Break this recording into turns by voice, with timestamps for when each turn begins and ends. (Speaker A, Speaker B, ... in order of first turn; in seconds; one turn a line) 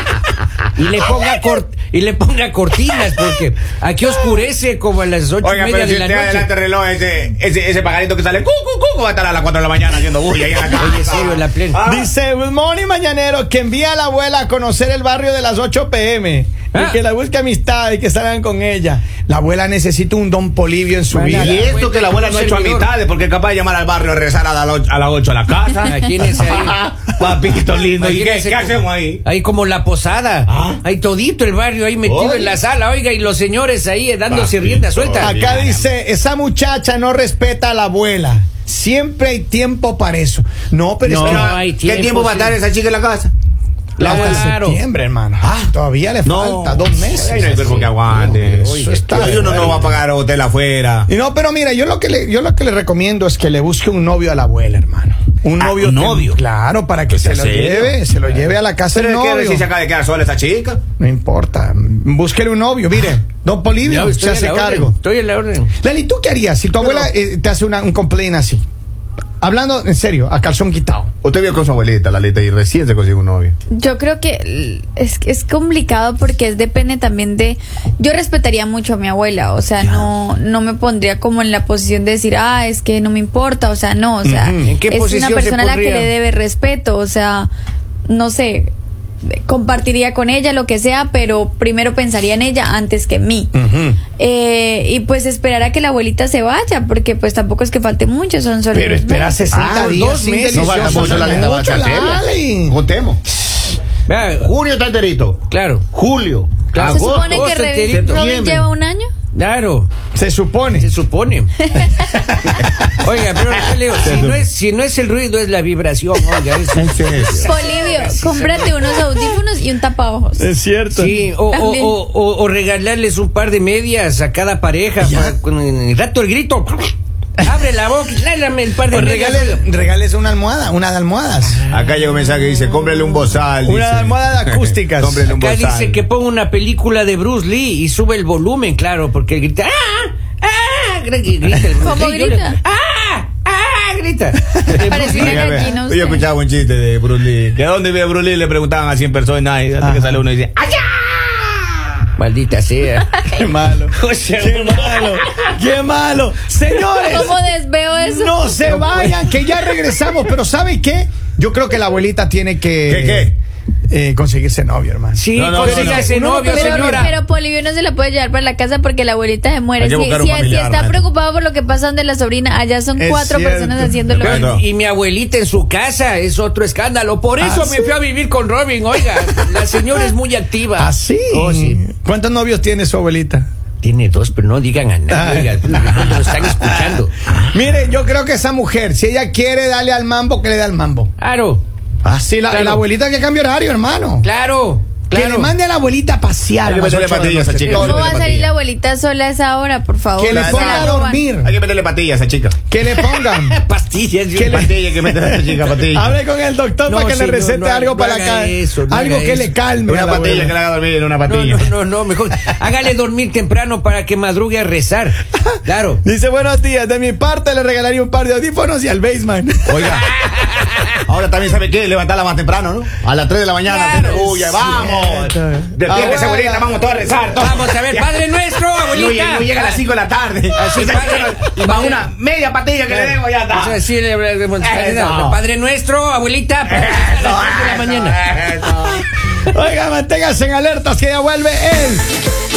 Speaker A: 0.8-6.5
Speaker B: 5.4-12.1
Speaker A: 10.7-11.8
Speaker C: 11.8-21.6
Speaker A: 16.7-17.0
Speaker A: 21.1-22.9
Speaker B: 21.3-29.2
Speaker A: 25.8-26.8
Speaker A: 27.9-35.3
Speaker B: 30.5-30.8
Speaker B: 32.0-32.5
Speaker B: 34.3-35.8
Speaker C: 35.2-41.5
Speaker A: 41.0-42.6
Speaker B: 41.1-43.3
Speaker A: 44.0-44.8
Speaker C: 44.0-47.8
Speaker B: 44.0-44.4
Speaker B: 45.4-45.7
Speaker B: 46.2-51.1
Speaker A: 47.3-50.0
Speaker C: 48.6-49.9
Speaker C: 51.1-59.7
Speaker B: 55.6-56.4
Speaker B: 57.1-58.0
Speaker B: 58.9-60.8
Speaker C: 61.0-64.9
Speaker A: 63.8-65.7
Speaker C: 65.8-68.6
Speaker C: 69.4-71.1
Speaker B: 71.2-73.5
Speaker D: 73.7-87.5
Speaker C: 84.2-84.7
Speaker A: 84.6-86.1
Speaker D: 88.1-88.7
Speaker D: 89.3-93.5
Speaker C: 93.5-94.0
Speaker D: 94.2-99.6
Speaker C: 98.7-102.8
Speaker B: 99.5-100.0
Speaker A: 99.7-101.6
Speaker B: 100.5-103.2
Speaker A: 104.1-104.5
Speaker B: 104.4-108.7
Speaker A: 105.5-105.9
Speaker A: 106.6-108.2
Speaker D: 106.8-109.1
Speaker A: 109.3-109.9
Speaker C: 110.1-110.9
Speaker A: 110.8-111.5
Speaker D: 111.6-112.1
Speaker C: 112.1-112.6
Speaker A: 113.0-119.0
Speaker B: 113.5-114.4
Speaker B: 116.7-117.5
Speaker D: 117.3-120.5
Speaker C: 120.4-121.2
Speaker A: 120.9-129.6
Speaker D: 121.5-121.9
Speaker C: 125.0-125.3
Speaker C: 128.9-131.6
Speaker A: 131.6-132.6
Speaker B: 131.7-136.0
Speaker C: 133.6-135.3
Speaker A: 135.2-145.7
Speaker D: 141.8-142.6
Speaker B: 144.6-151.5
Speaker D: 144.8-146.2
Speaker C: 149.8-150.2
Speaker A: 152.2-153.2
Speaker C: 153.3-157.3
Speaker A: 153.9-155.5
Speaker D: 157.0-158.6
Speaker C: 158.0-163.3
Speaker A: 158.6-160.2
Speaker B: 162.9-163.3
Speaker C: 163.9-167.1
Speaker A: 165.1-167.1
Speaker B: 165.3-166.1
Speaker D: 166.5-174.4
Speaker B: 169.8-171.0
Speaker C: 173.0-174.2
Speaker B: 174.2-174.6
Speaker A: 174.2-181.8
Speaker C: 177.4-177.9
Speaker C: 180.8-183.5
Speaker A: 183.8-187.1
Speaker C: 185.1-191.1
Speaker B: 187.3-187.6
Speaker A: 191.2-191.6
Speaker C: 192.0-194.2
Speaker A: 192.5-192.8
Speaker A: 194.2-195.5
Speaker C: 195.1-198.2
Speaker B: 196.6-198.5
Speaker A: 197.6-198.3
Speaker D: 197.8-201.2
Speaker C: 200.2-201.6
Speaker B: 200.2-202.6
Speaker C: 202.7-203.6
Speaker A: 202.9-204.9
Speaker C: 204.3-210.5
Speaker B: 204.5-206.1
Speaker A: 206.8-209.5
Speaker B: 209.8-211.7
Speaker A: 211.2-216.0
Speaker C: 216.0-220.0
Speaker B: 219.7-220.1
Speaker A: 220.0-220.9
Speaker B: 221.0-228.1
Speaker A: 223.6-224.5
Speaker C: 224.2-226.8
Speaker A: 227.3-229.8
Speaker B: 228.9-233.8
Speaker A: 230.5-232.1
Speaker A: 232.9-238.3
Speaker B: 234.6-235.4
Speaker B: 236.8-239.0
Speaker C: 239.4-242.1